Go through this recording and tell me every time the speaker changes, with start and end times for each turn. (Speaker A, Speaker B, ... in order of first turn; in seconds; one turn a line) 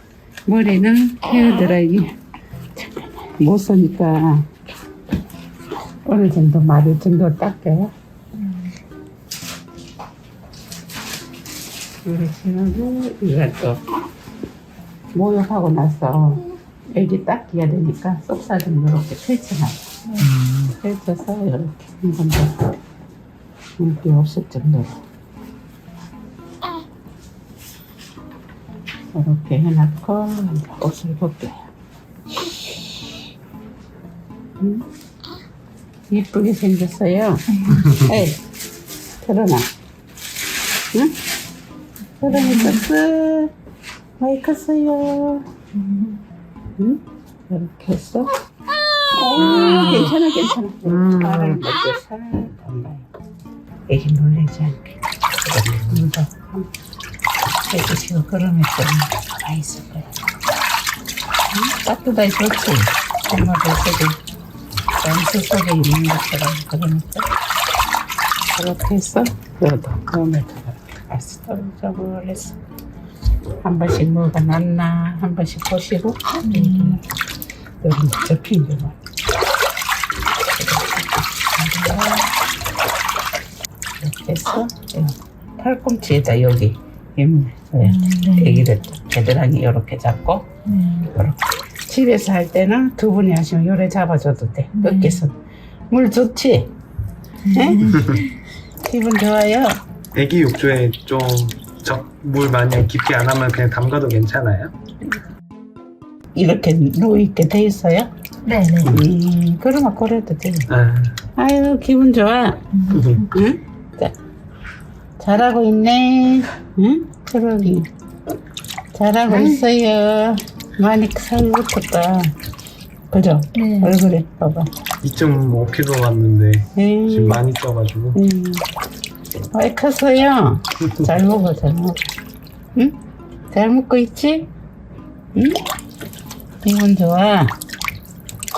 Speaker A: 0.5-2.2
Speaker A: 2.7-4.5
Speaker A: 6.0-7.9
Speaker A: 12.0-13.8
Speaker A: 15.1-19.9
Speaker B: 20.2-20.8
Speaker A: 20.8-22.7
Speaker A: 23.8-25.0
Speaker A: 29.1-31.7
Speaker A: 32.3-33.2
Speaker A: 34.6-34.9
Speaker A: 36.1-38.4
Speaker A: 39.2-39.7
Speaker A: 40.9-41.2
Speaker A: 42.2-43.5
Speaker A: 44.2-45.5
Speaker C: 45.8-46.2
Speaker A: 46.8-48.4
Speaker A: 49.0-53.1
Speaker B: 49.5-50.1
Speaker B: 50.9-51.6
Speaker A: 53.9-56.7
Speaker A: 57.6-60.2
Speaker A: 61.5-64.2
Speaker A: 65.0-67.3
Speaker A: 68.5-72.6
Speaker A: 73.6-77.0
Speaker C: 76.5-77.0
Speaker A: 77.8-79.0
Speaker A: 80.4-82.3
Speaker A: 84.0-90.5
Speaker C: 87.9-88.6
Speaker C: 90.7-91.1
Speaker A: 91.0-95.3
Speaker C: 94.8-95.2
Speaker A: 95.9-96.7
Speaker A: 97.5-98.2
Speaker C: 97.5-98.3
Speaker A: 98.8-99.8
Speaker B: 100.1-104.7
Speaker A: 106.3-108.1
Speaker C: 108.5-109.0
Speaker A: 108.8-110.7
Speaker B: 110.7-111.2
Speaker A: 111.4-112.6
Speaker C: 112.7-113.3
Speaker B: 112.9-113.3
Speaker A: 113.3-114.1
Speaker A: 115.2-117.9
Speaker A: 118.9-122.3
Speaker A: 123.1-124.7
Speaker C: 123.6-124.0
Speaker B: 125.0-128.2
Speaker A: 126.8-127.5
Speaker A: 128.2-128.7
Speaker A: 129.5-132.0
Speaker A: 133.5-134.5
Speaker A: 135.3-135.6
Speaker A: 136.6-137.6